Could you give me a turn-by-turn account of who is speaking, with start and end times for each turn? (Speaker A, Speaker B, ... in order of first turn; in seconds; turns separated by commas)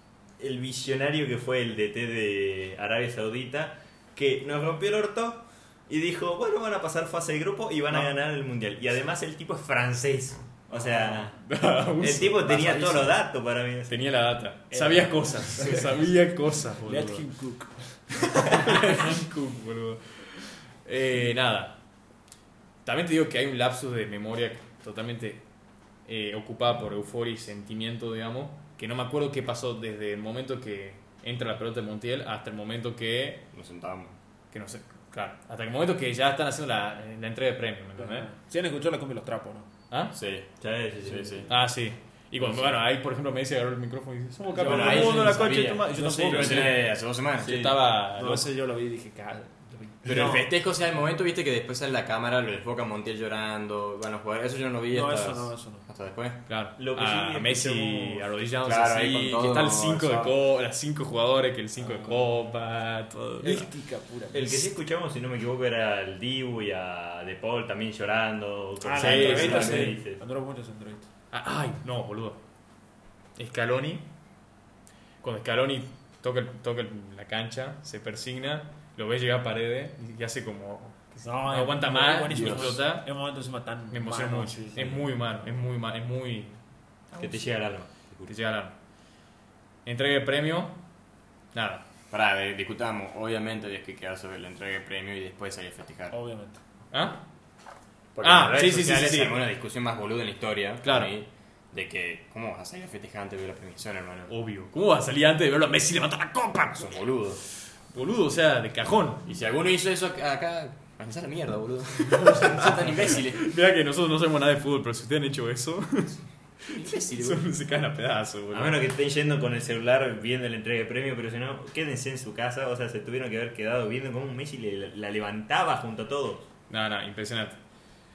Speaker A: 0.4-11.4, Speaker B: 11.4-13.2, Speaker A: 12.0-14.0, Speaker B: 13.9-17.2, Speaker C: 14.7-16.1, Speaker C: 16.8-18.9, Speaker B: 18.2-21.8, Speaker B: 22.9-25.4, Speaker B: 26.1-33.5, Speaker D: 33.5-34.1, Speaker B: 34.5-38.3, Speaker C: 38.0-39.7, Speaker D: 40.1-41.5, Speaker A: 40.6-41.5, Speaker B: 41.5-46.8, Speaker C: 44.4-46.8, Speaker D: 44.6-47.6, Speaker B: 47.4-48.5, Speaker A: 47.4-47.8, Speaker C: 48.2-50.5, Speaker D: 50.0-56.4, Speaker C: 54.9-55.9, Speaker B: 56.5-63.7, Speaker A: 56.8-58.3, Speaker D: 58.6-60.4, Speaker C: 61.8-62.3, Speaker C: 63.4-64.7, Speaker A: 64.3-70.2, Speaker C: 68.8-71.1, Speaker B: 69.0-69.9, Speaker B: 71.3-72.4, Speaker B: 73.4-74.1, Speaker B: 75.2-83.1, Speaker C: 81.2-85.0, Speaker D: 82.3-82.8, Speaker B: 83.9-86.6, Speaker B: 87.1-87.5, Speaker A: 87.2-88.3, Speaker B: 88.3-88.7, Speaker B: 89.8-90.8, Speaker B: 91.5-91.8, Speaker D: 92.1-96.2, Speaker C: 96.1-96.6, Speaker B: 96.9-97.2, Speaker D: 98.2-104.3, Speaker B: 98.2-99.4, Speaker B: 100.8-101.1, Speaker B: 104.3-107.0, Speaker D: 106.8-107.4, Speaker B: 107.9-109.3, Speaker D: 109.3-113.5, Speaker B: 112.2-118.8, Speaker D: 116.7-117.5, Speaker A: 118.5-126.5, Speaker B: 126.7-127.6